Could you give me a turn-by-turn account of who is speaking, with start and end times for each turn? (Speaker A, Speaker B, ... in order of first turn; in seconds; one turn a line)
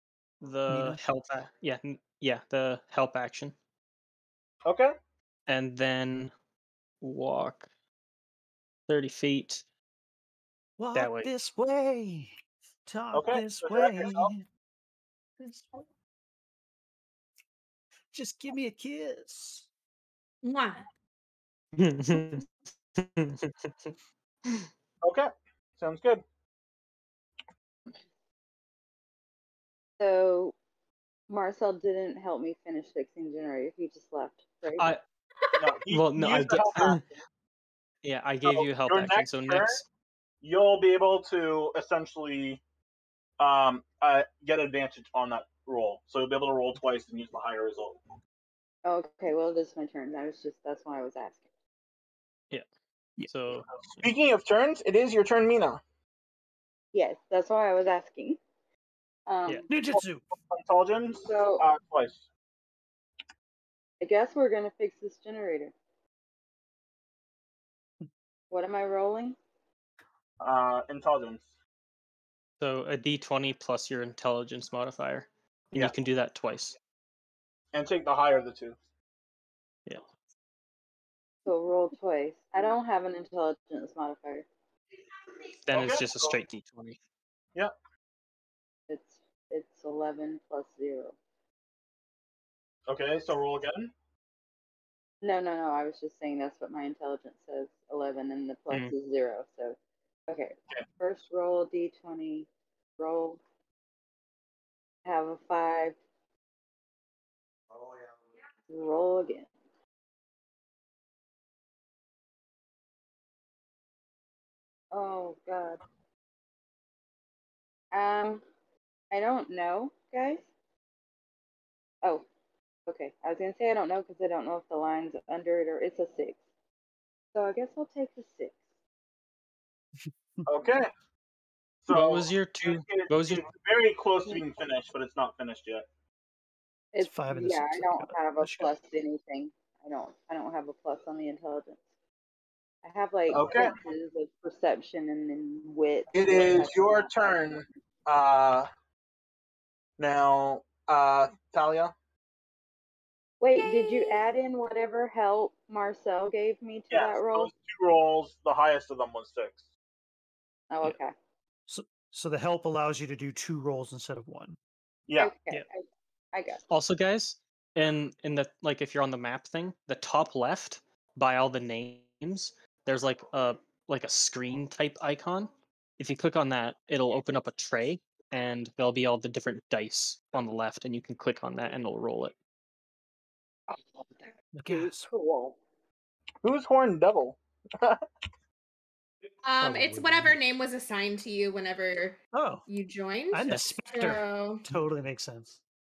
Speaker A: 0.4-3.5
Speaker B: 0.7-1.0
Speaker C: 4.6-4.9
Speaker A: 5.5-6.3
Speaker A: 7.0-7.7
Speaker A: 8.9-9.6
Speaker B: 10.8-14.4
Speaker A: 10.9-11.3
Speaker C: 13.1-14.3
Speaker B: 15.4-15.8
Speaker B: 18.1-19.7
Speaker D: 20.4-20.9
Speaker A: 21.7-23.9
Speaker C: 25.0-26.2
Speaker E: 30.0-30.6
Speaker E: 31.3-34.9
Speaker C: 35.6-37.0
Speaker A: 35.9-37.0
Speaker A: 38.0-39.8
Speaker C: 38.5-39.8
Speaker C: 40.4-42.6
Speaker C: 43.4-48.0
Speaker E: 48.8-51.4
Speaker A: 53.3-53.7
Speaker C: 54.0-55.8
Speaker E: 56.9-58.4
Speaker E: 59.3-59.7
Speaker B: 59.7-60.3
Speaker C: 59.8-62.2
Speaker E: 61.2-61.7
Speaker E: 64.0-65.7
Speaker E: 68.5-69.4
Speaker C: 70.4-71.5
Speaker A: 72.6-76.8
Speaker C: 77.7-78.8
Speaker E: 81.4-84.5
Speaker A: 85.7-87.0
Speaker C: 85.7-86.1
Speaker E: 88.9-91.2
Speaker C: 92.9-93.9
Speaker E: 95.2-99.8
Speaker E: 100.3-103.4
Speaker E: 105.0-106.0
Speaker E: 108.7-109.5
Speaker E: 114.9-115.8
Speaker E: 117.9-118.4
Speaker E: 119.1-120.5
Speaker E: 122.9-126.4
Speaker E: 127.3-128.6
Speaker B: 130.0-130.5
Speaker C: 130.4-130.9
Speaker C: 131.8-135.9
Speaker A: 131.9-133.5
Speaker E: 136.9-141.8
Speaker B: 137.0-138.7
Speaker E: 142.8-147.6
Speaker C: 143.3-143.8
Speaker C: 146.1-148.7
Speaker C: 150.0-151.9
Speaker E: 153.4-157.5
Speaker C: 156.9-159.6
Speaker E: 160.7-161.1
Speaker B: 161.7-164.6
Speaker C: 165.1-165.4
Speaker E: 165.2-166.6
Speaker A: 166.7-182.3
Speaker E: 184.0-185.6
Speaker B: 184.5-185.1
Speaker C: 186.4-188.0
Speaker D: 189.4-194.6
Speaker B: 189.6-190.4
Speaker B: 192.3-192.6
Speaker B: 193.3-195.6